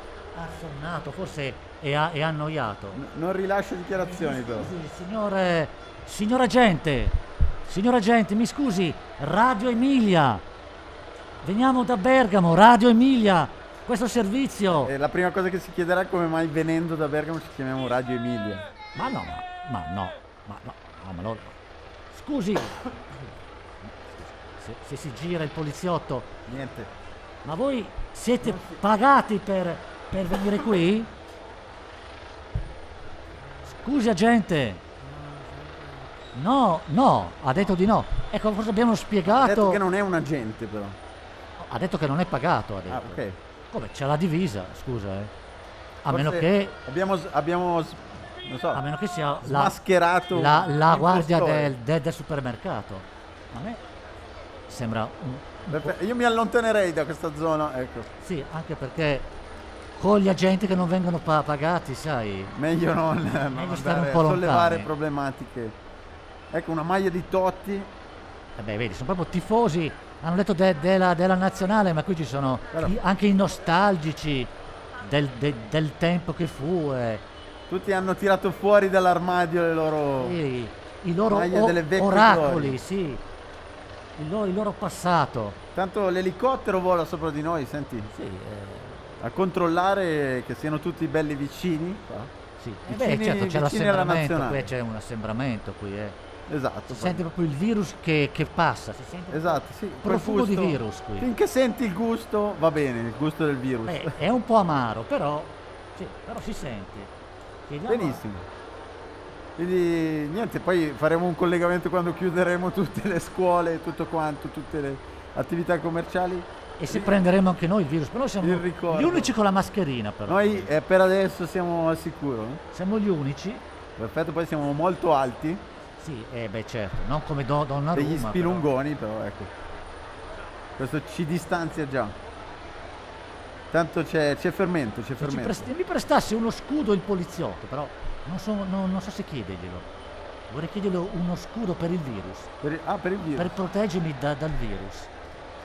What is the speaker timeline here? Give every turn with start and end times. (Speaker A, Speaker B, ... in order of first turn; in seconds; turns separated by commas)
Speaker A: 0.3-3.0, Speaker B: 3.0-4.7, Speaker A: 3.9-10.4, Speaker A: 11.4-14.9, Speaker B: 14.8-18.7, Speaker A: 19.0-21.6, Speaker A: 22.1-22.8, Speaker A: 23.8-26.4, Speaker B: 26.5-26.9, Speaker A: 27.4-31.1, Speaker B: 28.4-28.8, Speaker A: 33.7-34.8, Speaker B: 35.4-35.8, Speaker A: 36.3-39.8, Speaker B: 39.3-41.0, Speaker A: 41.6-45.3, Speaker B: 42.9-43.4, Speaker A: 46.0-46.8, Speaker B: 46.1-48.8, Speaker A: 48.7-49.8, Speaker B: 49.4-51.7, Speaker A: 50.3-53.8, Speaker A: 54.7-55.9, Speaker B: 55.7-58.1, Speaker A: 58.2-59.3, Speaker A: 60.0-62.5, Speaker B: 62.5-65.8, Speaker A: 63.5-64.9, Speaker B: 66.5-67.9, Speaker A: 68.6-77.2, Speaker B: 77.7-80.4, Speaker A: 80.2-83.2, Speaker B: 81.3-82.8, Speaker A: 84.2-85.6, Speaker B: 85.8-88.1, Speaker A: 88.1-89.2, Speaker B: 89.2-92.3, Speaker A: 92.6-96.2, Speaker B: 92.9-94.7, Speaker B: 96.5-97.3, Speaker A: 96.9-101.3, Speaker B: 99.3-104.2, Speaker A: 103.9-107.1, Speaker A: 107.7-108.2, Speaker B: 107.9-108.5, Speaker B: 109.6-117.2, Speaker A: 116.8-120.8, Speaker B: 118.4-119.3, Speaker B: 120.3-122.6, Speaker A: 122.7-123.7, Speaker B: 124.0-125.6, Speaker A: 126.0-128.7, Speaker B: 127.9-129.5, Speaker B: 130.8-132.2, Speaker B: 133.7-135.7, Speaker A: 135.2-139.9, Speaker A: 140.5-142.5, Speaker B: 142.6-143.5, Speaker A: 143.3-145.1